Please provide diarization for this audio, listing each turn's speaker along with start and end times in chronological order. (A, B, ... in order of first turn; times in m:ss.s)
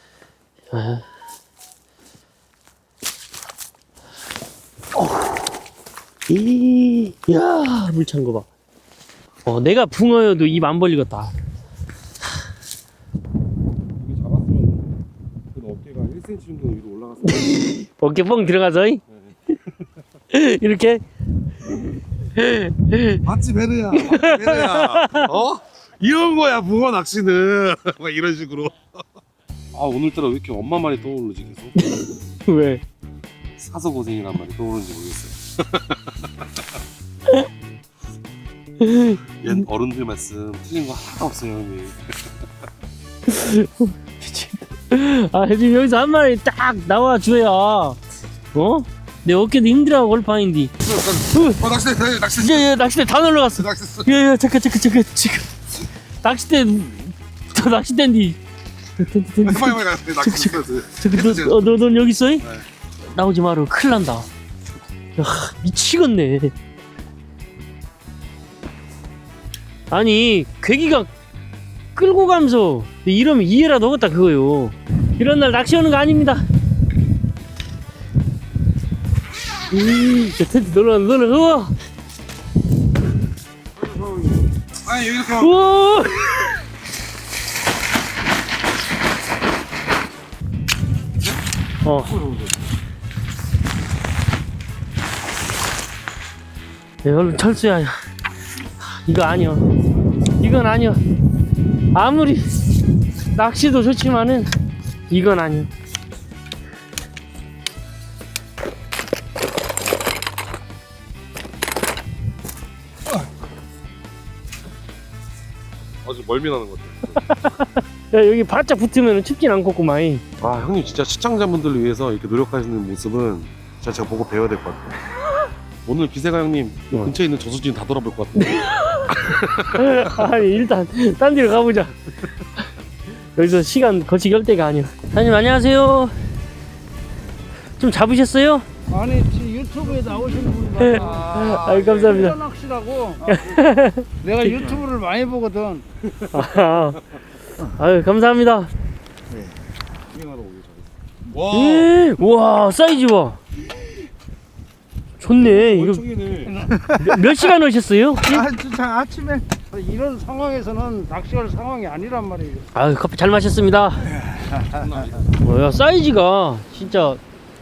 0:00.7-0:01.0 A
0:05.0-0:05.5 A
0:06.3-0:08.5 A
0:09.4-0:11.3 A
0:14.0-0:17.6 B
0:17.3-0:19.0 A
0:20.3-0:21.0 A
0:22.3-0:23.2 A
0:23.2-0:28.9 B
0:23.9-0:25.3 A
0:29.7-0:31.8 B
0:31.8-0:32.8 A
0:33.6-0:36.4 B
0:38.8-0:39.5 A
0:39.4-0:42.0 B
0:43.3-0:48.0 A
0:48.5-0:50.8 A
0:50.8-0:52.9 B
0:51.3-0:51.6 A
0:52.3-0:58.4 A
0:53.5-0:54.1 B
0:59.0-1:02.5 A
0:59.4-1:01.9 B
1:03.1-1:04.3 A
1:05.2-1:06.5 A
1:09.9-1:11.1 A
1:12.0-1:16.4 A
1:19.7-1:21.8 A
1:23.8-1:25.6 B
1:25.4-1:26.6 A
1:31.8-1:32.2 A
1:37.0-1:38.0 A
1:38.8-1:39.7 A
1:40.4-1:41.0 A
1:41.9-1:42.8 A
1:43.3-1:44.5 A
1:45.1-1:45.7 A
1:56.0-1:57.2 B
1:57.2-2:00.2 A
2:00.4-2:05.0 B
2:05.9-2:10.3 B
2:08.4-2:12.3 A
2:13.4-2:16.1 A
2:17.8-2:18.7 A
2:18.9-2:23.5 C
2:20.8-2:22.4 A
2:23.3-2:24.1 A
2:24.2-2:25.8 C
2:26.2-2:27.0 A
2:27.6-2:28.7 A
2:30.1-2:31.7 B
2:31.4-2:33.4 A
2:35.2-2:36.0 A
2:35.4-2:36.7 B
2:36.8-2:38.5 A
2:38.4-2:42.7 C
2:42.7-2:44.2 A
2:44.6-2:45.3 B
2:45.4-2:47.2 A